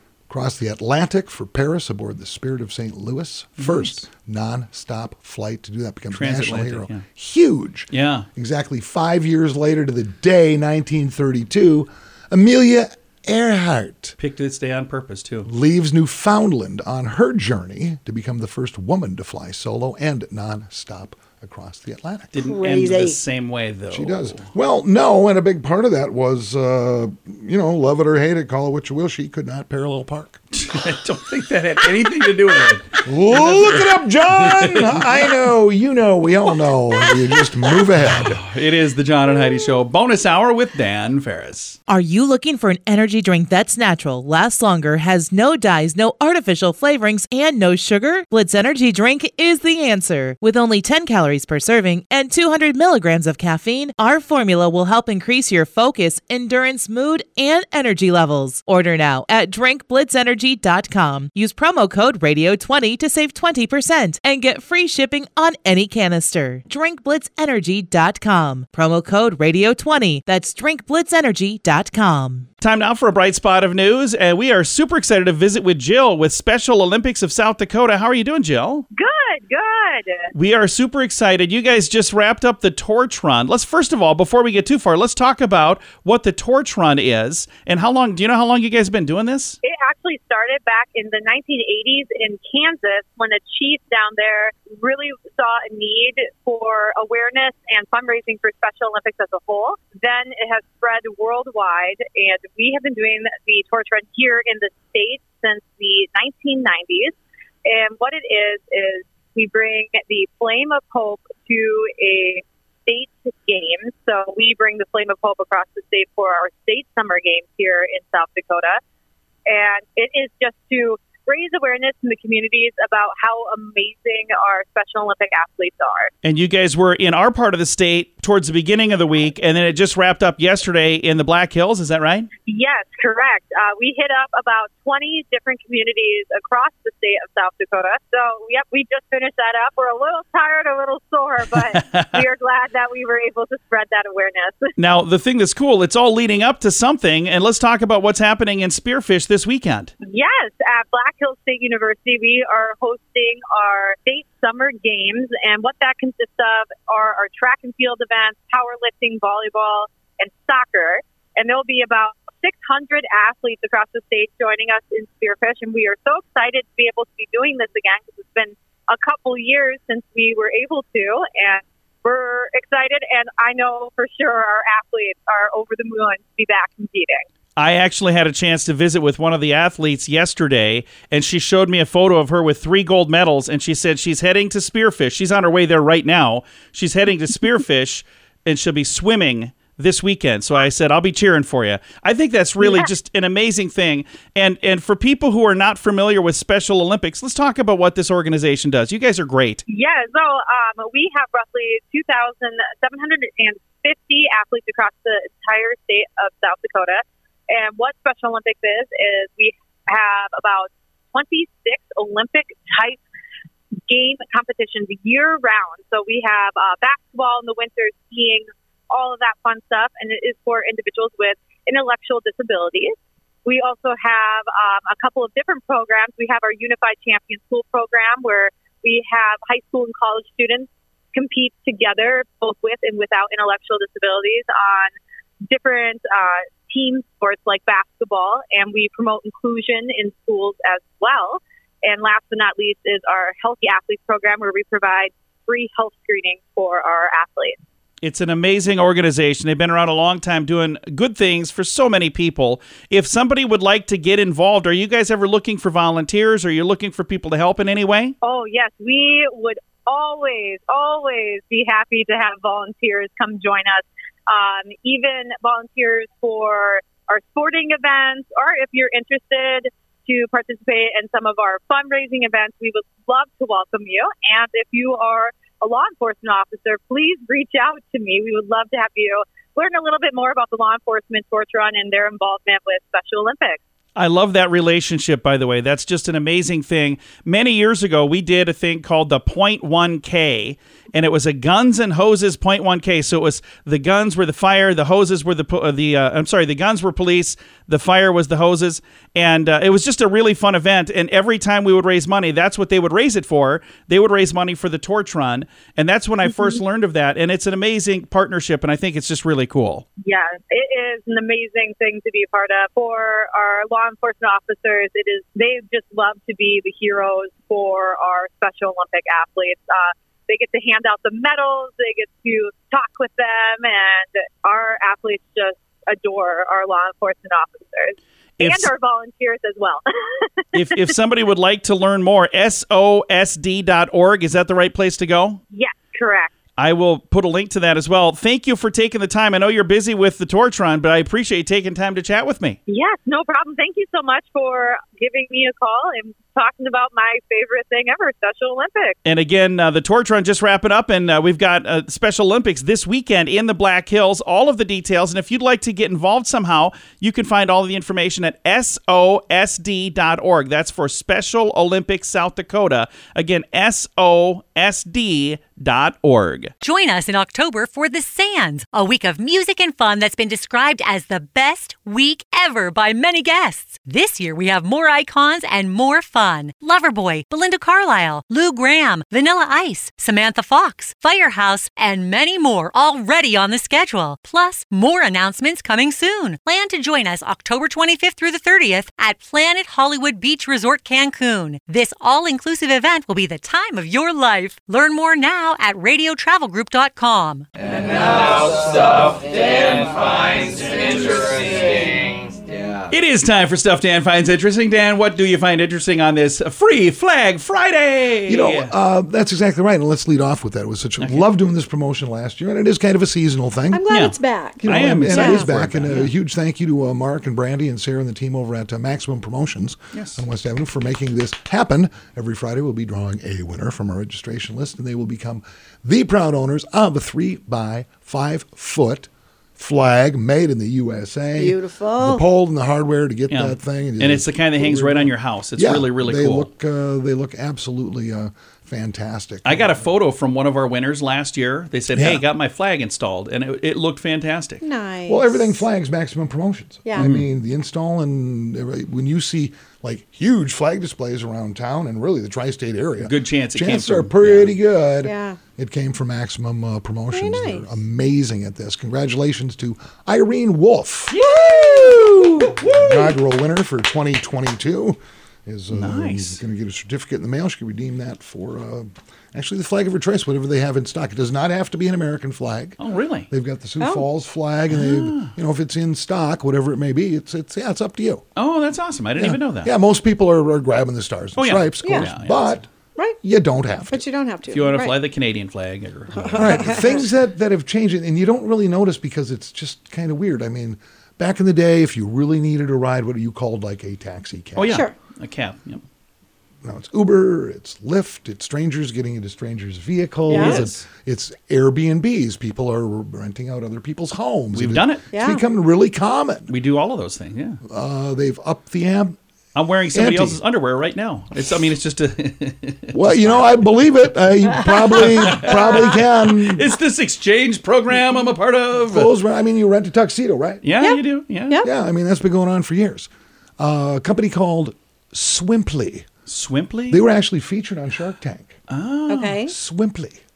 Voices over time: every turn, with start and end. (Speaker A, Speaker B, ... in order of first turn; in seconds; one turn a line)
Speaker A: 0.3-14.2
Speaker B: 3.6-4.1
Speaker B: 6.1-7.0
Speaker B: 7.9-8.3
Speaker B: 14.2-15.5
Speaker A: 15.5-22.3
Speaker B: 22.3-24.4
Speaker C: 22.4-23.2
Speaker A: 23.9-30.4
Speaker B: 30.6-33.8
Speaker A: 33.0-38.4
Speaker B: 34.4-35.0
Speaker B: 37.3-41.8
Speaker D: 41.9-72.5
Speaker B: 72.6-78.9
Speaker E: 79.0-80.2
Speaker B: 80.3-89.6
Speaker E: 89.6-118.8
Speaker E: 119.5-126.1
Speaker B: 126.2-132.3
Speaker E: 132.5-144.7
Speaker B: 141.7-142.2
Speaker B: 144.8-149.9
Speaker E: 150.0-177.2
Speaker B: 177.6-199.6
Speaker E: 192.6-192.9
Speaker E: 199.7-213.0
Speaker E: 213.9-222.9
Speaker E: 223.4-234.9
Speaker E: 235.5-247.6
Speaker B: 248.0-258.2
Speaker E: 258.2-283.6
Speaker B: 284.0-309.9
Speaker E: 306.3-306.6
Speaker E: 310.0-330.6
Speaker B: 328.4-328.7
Speaker B: 330.5-335.4
Speaker E: 335.5-336.3
Speaker B: 336.6-342.6
Speaker E: 342.7-349.0
Speaker B: 349.1-366.5
Speaker F: 366.6-397.4
Speaker G: 397.8-402.7
Speaker B: 402.9-408.7
Speaker A: 408.3-413.9
Speaker B: 411.0-411.3
Speaker C: 413.7-415.5
Speaker B: 413.9-416.1
Speaker A: 414.6-439.9
Speaker B: 419.9-420.2
Speaker C: 431.4-432.2
Speaker B: 433.3-436.5
Speaker B: 439.4-444.6
Speaker A: 441.9-442.2
Speaker C: 444.6-445.6
Speaker A: 445.1-461.2
Speaker C: 446.9-447.1
Speaker B: 447.0-447.2
Speaker B: 453.0-454.6
Speaker C: 455.0-455.4
Speaker C: 457.1-457.8
Speaker B: 461.1-463.1
Speaker C: 461.2-462.6
Speaker A: 462.6-472.8
Speaker B: 465.7-466.4
Speaker B: 472.8-473.3
Speaker A: 473.3-478.3
Speaker C: 473.8-474.1
Speaker B: 474.7-475.3
Speaker B: 478.4-479.7
Speaker A: 479.2-482.7
Speaker B: 481.4-482.6
Speaker C: 481.8-482.1
Speaker C: 483.0-483.2
Speaker A: 483.2-484.0
Speaker C: 483.9-485.0
Speaker B: 484.5-487.1
Speaker C: 486.2-486.7
Speaker A: 486.3-494.9
Speaker B: 494.6-495.8
Speaker A: 496.6-506.5
Speaker B: 500.3-500.8
Speaker C: 500.3-500.6
Speaker B: 504.5-505.0
Speaker C: 505.1-505.4
Speaker B: 506.5-507.6
Speaker A: 507.6-509.2
Speaker B: 509.6-513.5
Speaker A: 509.9-510.4
Speaker A: 512.9-516.7
Speaker B: 514.8-519.1
Speaker A: 518.8-520.7
Speaker B: 520.6-521.6
Speaker C: 520.8-521.7
Speaker A: 521.6-526.1
Speaker B: 526.3-527.0
Speaker A: 526.9-528.5
Speaker B: 528.7-529.5
Speaker C: 529.1-529.5
Speaker A: 529.5-530.2